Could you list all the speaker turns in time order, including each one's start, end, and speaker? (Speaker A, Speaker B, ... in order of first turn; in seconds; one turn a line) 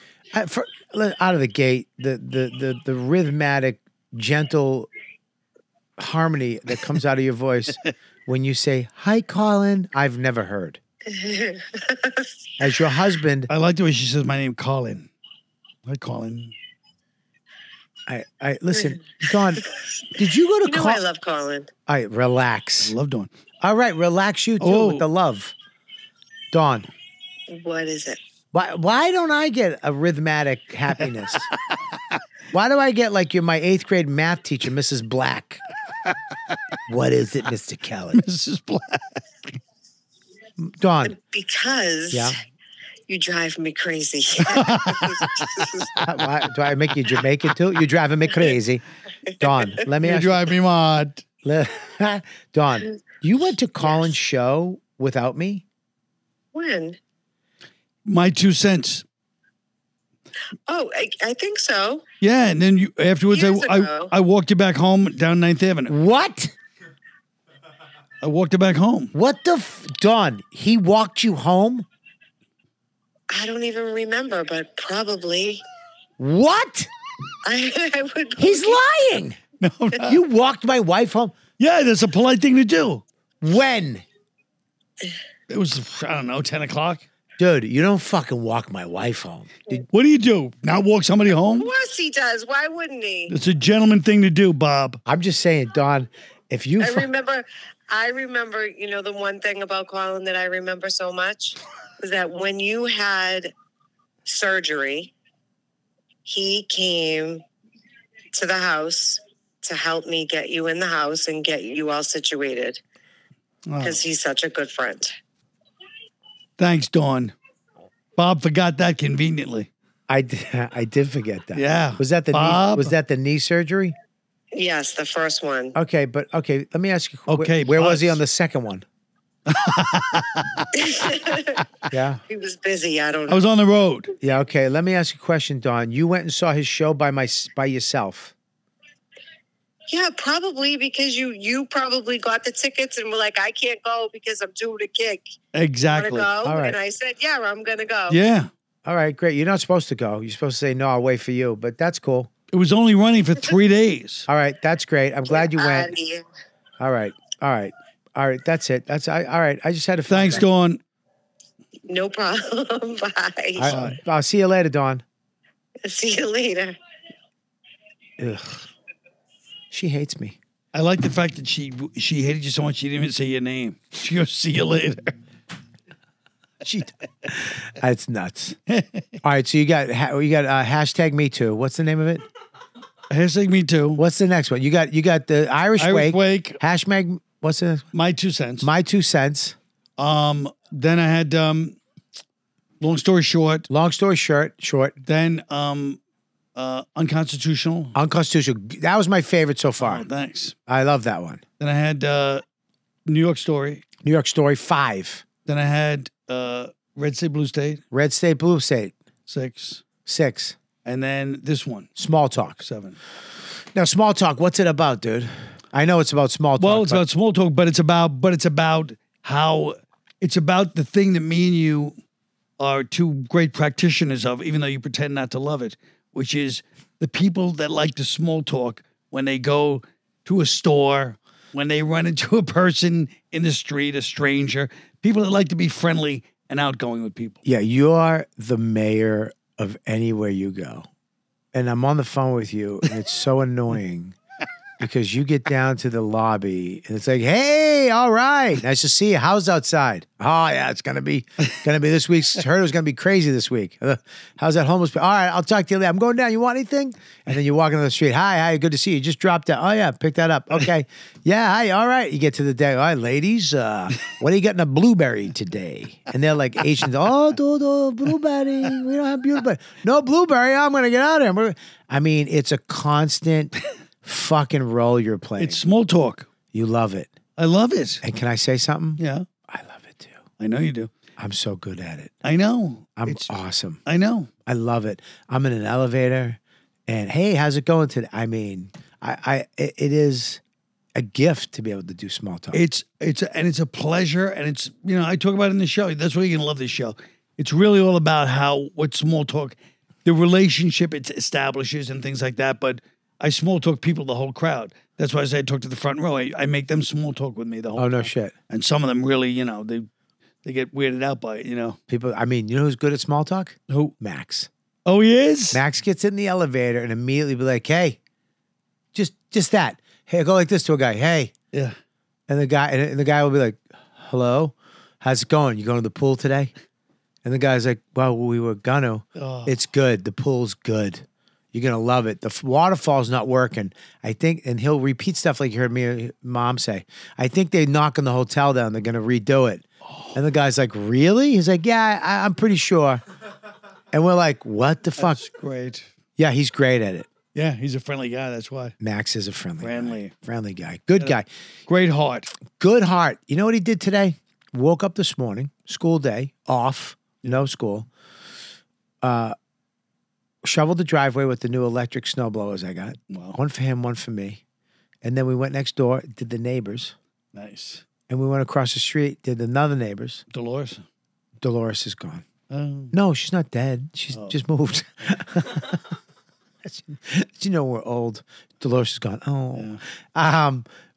Speaker A: 0.3-4.9
Speaker A: 6.0-10.8
Speaker B: 11.1-12.2
Speaker A: 12.6-13.5
Speaker C: 13.5-15.1
Speaker C: 15.8-16.5
Speaker A: 18.1-19.6
Speaker A: 20.1-21.0
Speaker B: 20.6-21.7
Speaker A: 21.9-22.9
Speaker C: 22.8-23.3
Speaker A: 23.6-25.5
Speaker C: 24.6-25.0
Speaker A: 26.5-26.9
Speaker B: 27.5-28.2
Speaker A: 28.5-31.5
Speaker A: 32.5-35.6
Speaker A: 36.9-38.2
Speaker C: 38.1-39.6
Speaker A: 40.6-41.2
Speaker B: 41.1-42.4
Speaker A: 42.1-42.4
Speaker B: 43.1-45.8
Speaker C: 44.4-45.9
Speaker A: 46.0-48.8
Speaker A: 49.4-50.5
Speaker C: 50.0-51.2
Speaker A: 51.4-55.6
Speaker B: 56.5-57.0
Speaker C: 58.1-59.0
Speaker B: 60.7-62.0
Speaker C: 62.2-65.9
Speaker B: 63.3-64.1
Speaker A: 65.9-66.5
Speaker C: 68.2-69.1
Speaker A: 69.1-71.8
Speaker B: 73.3-75.6
Speaker A: 76.2-76.9
Speaker B: 77.4-78.8
Speaker A: 78.4-79.4
Speaker C: 79.6-80.2
Speaker A: 80.0-81.3
Speaker C: 81.6-83.0
Speaker A: 83.4-84.0
Speaker C: 85.5-87.0
Speaker A: 87.4-89.8
Speaker C: 89.9-91.7
Speaker B: 91.6-93.3
Speaker C: 93.3-95.0
Speaker A: 95.0-97.1
Speaker B: 96.8-103.5
Speaker B: 104.2-105.1
Speaker B: 106.2-107.4
Speaker B: 108.3-112.8
Speaker C: 113.7-114.0
Speaker B: 113.8-115.1
Speaker C: 116.6-117.3
Speaker C: 118.2-119.7
Speaker A: 120.1-124.0
Speaker C: 121.5-122.9
Speaker B: 124.5-125.7
Speaker A: 125.7-128.8
Speaker C: 127.3-128.2
Speaker C: 129.5-130.7
Speaker B: 130.8-131.6
Speaker A: 131.9-132.2
Speaker B: 132.3-133.4
Speaker C: 133.3-134.1
Speaker A: 134.2-138.3
Speaker B: 139.9-145.3
Speaker C: 145.5-146.3
Speaker B: 145.9-148.2
Speaker A: 146.4-146.8
Speaker C: 148.1-148.5
Speaker A: 148.8-152.3
Speaker C: 152.5-154.3
Speaker A: 154.3-155.9
Speaker B: 155.3-156.2
Speaker A: 156.8-160.4
Speaker C: 160.1-160.8
Speaker B: 161.9-163.7
Speaker A: 163.6-165.0
Speaker C: 163.7-164.0
Speaker B: 165.8-166.8
Speaker A: 168.2-168.7
Speaker A: 169.7-170.4
Speaker C: 170.7-175.1
Speaker A: 176.6-178.6
Speaker C: 178.7-179.1
Speaker A: 179.2-182.2
Speaker C: 183.1-184.0
Speaker A: 184.0-187.9
Speaker C: 185.8-186.6
Speaker C: 187.9-188.7
Speaker A: 188.6-189.6
Speaker C: 190.0-191.8
Speaker C: 192.8-193.7
Speaker A: 193.7-195.0
Speaker C: 195.1-196.0
Speaker C: 196.6-197.9
Speaker A: 197.9-200.1
Speaker C: 199.8-200.5
Speaker A: 200.7-201.4
Speaker C: 201.6-202.4
Speaker C: 203.1-203.8
Speaker A: 204.0-205.2
Speaker C: 205.5-207.8
Speaker A: 207.9-208.9
Speaker C: 209.3-209.8
Speaker A: 210.1-210.6
Speaker C: 210.8-211.9
Speaker A: 212.0-212.6
Speaker C: 212.6-213.0
Speaker A: 213.7-217.0
Speaker C: 216.6-221.9
Speaker C: 222.6-237.4
Speaker A: 237.4-240.9
Speaker A: 241.5-244.2
Speaker A: 244.8-275.6
Speaker C: 275.4-276.3
Speaker A: 276.5-277.1
Speaker C: 277.4-278.0
Speaker A: 278.0-280.2
Speaker C: 279.0-279.2
Speaker C: 280.4-280.9
Speaker A: 281.2-282.1
Speaker C: 282.2-283.3
Speaker A: 283.0-283.8
Speaker C: 283.9-284.3
Speaker A: 284.4-290.4
Speaker A: 290.9-292.6
Speaker C: 292.5-309.9
Speaker A: 307.8-308.3
Speaker C: 310.4-311.8
Speaker A: 311.9-314.5
Speaker C: 314.9-315.6
Speaker A: 315.5-318.0
Speaker A: 318.9-321.3
Speaker A: 322.3-326.5
Speaker A: 327.2-343.0
Speaker C: 329.2-329.5
Speaker C: 339.9-340.1
Speaker A: 343.9-345.2
Speaker C: 345.0-345.9
Speaker A: 346.2-347.1
Speaker C: 347.3-348.7
Speaker A: 348.8-351.3
Speaker C: 349.6-350.1
Speaker C: 351.7-352.3
Speaker A: 352.5-357.9
Speaker A: 359.0-359.3
Speaker A: 360.4-364.4
Speaker C: 363.1-363.4
Speaker A: 365.0-366.9
Speaker C: 367.3-367.8
Speaker A: 368.1-370.2
Speaker C: 370.3-370.8
Speaker A: 371.4-372.2
Speaker C: 372.5-372.9
Speaker A: 372.9-375.8
Speaker A: 376.6-380.6
Speaker C: 379.5-379.8